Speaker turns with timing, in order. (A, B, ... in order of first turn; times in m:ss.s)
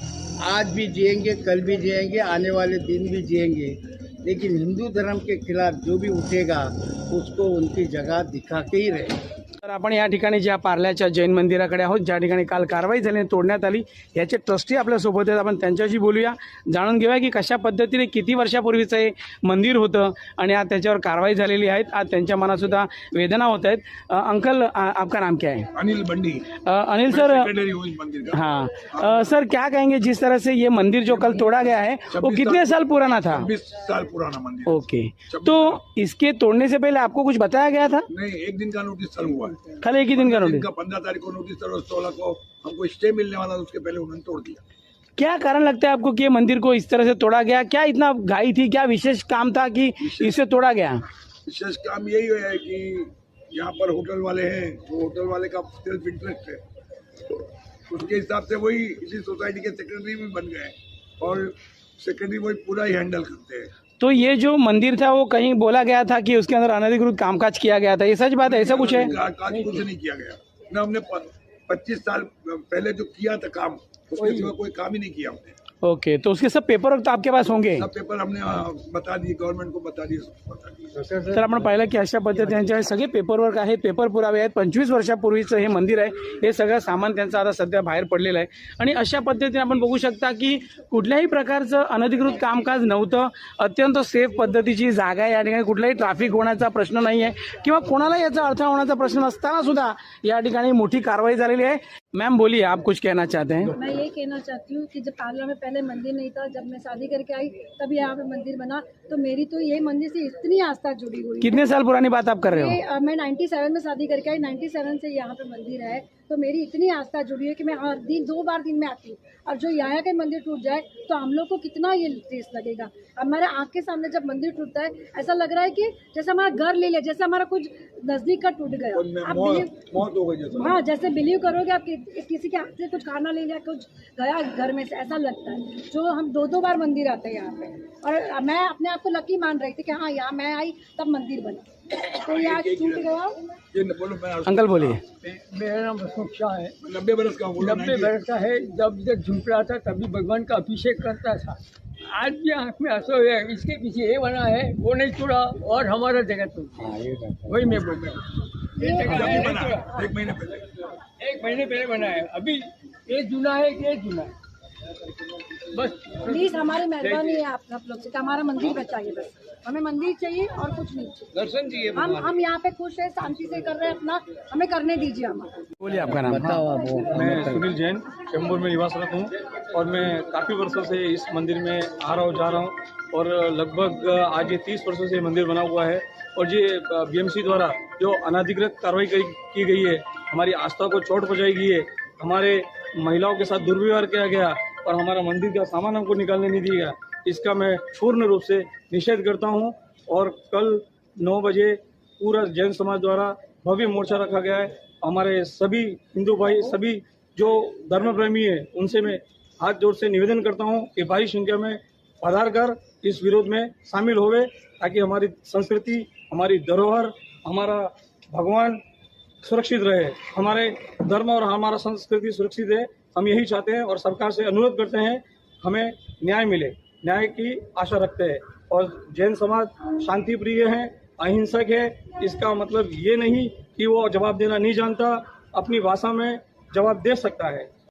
0:00.4-0:09.2 A
0:09.6-0:25.7 B
0:25.7-0:26.5 C
0:26.5-0:27.5 B
0:27.1-0:29.2 C
0:28.3-0:33.5 B
0:32.1-0:32.8 C
0:33.3-0:35.8 C
0:34.7-0:38.1 B
0:38.1-0:44.6 C
0:39.8-0:40.7 B
0:45.2-0:51.0 B
0:50.0-0:50.4 C
0:51.5-0:56.6 C
0:57.9-1:03.7 C
1:04.0-1:09.1 B
1:08.4-1:15.6 C
1:09.0-1:09.8 D
1:14.2-1:14.5 D
1:15.8-1:17.9 B
1:17.8-1:21.0 C
1:21.0-1:21.3 D
1:21.3-1:43.8 B
1:43.7-1:51.6 E
1:51.4-1:52.8 B
1:52.5-2:09.9 E
2:08.9-2:10.8 C
2:10.5-2:23.4 E
2:22.3-2:23.1 C
2:23.7-2:25.0 C
2:24.5-2:25.0 B
2:25.2-2:26.8 D
2:26.8-2:28.1 C
2:27.6-2:36.8 D
2:36.8-2:37.9 A
2:37.5-2:40.2 D
2:38.8-2:39.6 E
2:39.2-2:40.7 C
2:41.2-2:44.3 D
2:45.7-2:47.4 D
2:46.3-2:51.4 E
2:51.5-2:52.3 D
2:51.9-2:55.6 E
2:55.8-2:56.6 B
2:56.3-2:57.6 A
2:57.1-3:38.8 F
3:39.4-3:57.7 F